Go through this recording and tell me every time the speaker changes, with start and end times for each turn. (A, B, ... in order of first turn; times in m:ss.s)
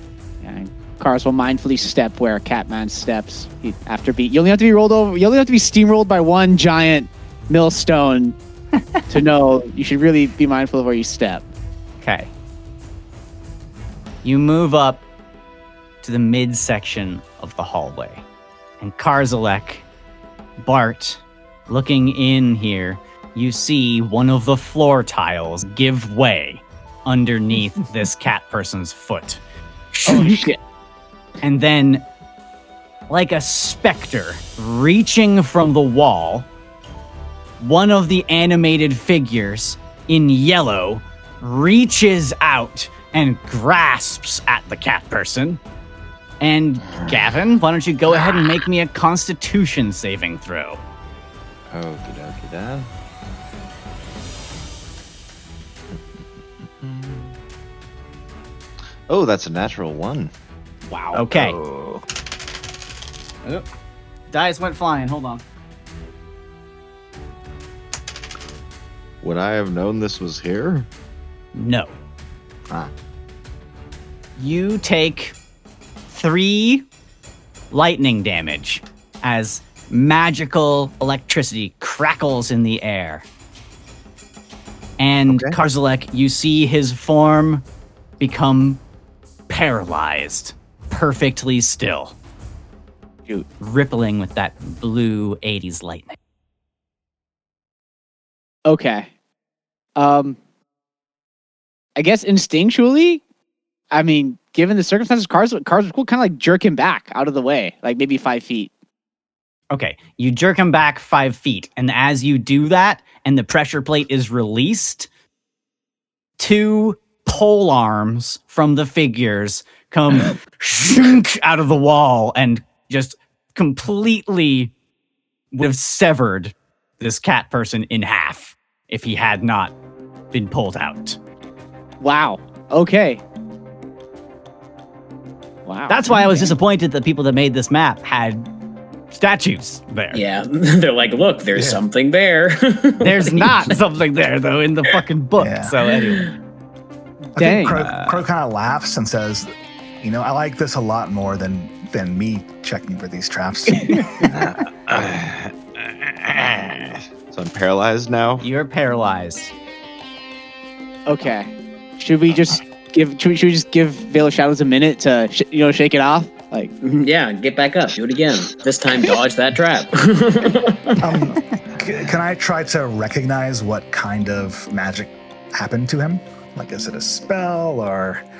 0:00.4-0:08.4 A
0:08.8-0:09.0 B
0:09.1-0:11.4 A
0:12.0-0:12.3 B
0:14.2-0:15.0 B
0:16.0-0:18.2 B
0:18.8-0:19.8 B
0:20.6-0:29.4 B
0:29.9-0:30.5 B
0:30.1-0:30.5 C
0:31.4-0:32.0 B
0:33.1-0:36.5 B
0:37.6-0:45.6 B
0:46.4-0:50.8 B
0:51.7-0:52.9 D
0:56.8-0:57.3 D
0:59.1-1:00.3 D
1:00.9-1:01.6 B
1:01.2-1:02.0 D
1:04.3-1:05.4 B
1:09.2-1:10.9 D
1:11.5-1:11.9 B
1:14.4-1:15.4 B
1:16.1-1:16.8 B
1:17.7-1:23.2 B
1:25.0-1:27.6 B
1:25.3-1:25.6 D
1:28.2-1:28.8 B
1:29.5-1:32.2 B
1:33.6-1:36.2 B
1:38.6-1:39.1 A
1:40.0-1:40.4 A
1:42.0-1:43.2 A
1:43.9-1:48.7 A
1:49.7-1:55.1 B
1:56.4-2:04.7 B
2:05.5-2:09.7 B
2:10.3-2:11.2 B
2:12.0-2:13.2 A
2:15.7-2:16.5 A
2:15.9-2:18.5 B
2:19.1-2:20.2 B
2:20.1-2:23.7 C
2:21.5-2:21.8 E
2:23.0-2:26.3 B
2:25.4-2:25.7 E
2:27.3-2:27.9 A
2:27.4-2:29.5 E
2:30.0-2:34.3 E
2:34.9-2:38.4 D
2:38.4-2:39.5 B
2:41.0-2:46.7 A
2:46.8-2:51.1 C
2:51.0-2:58.2 E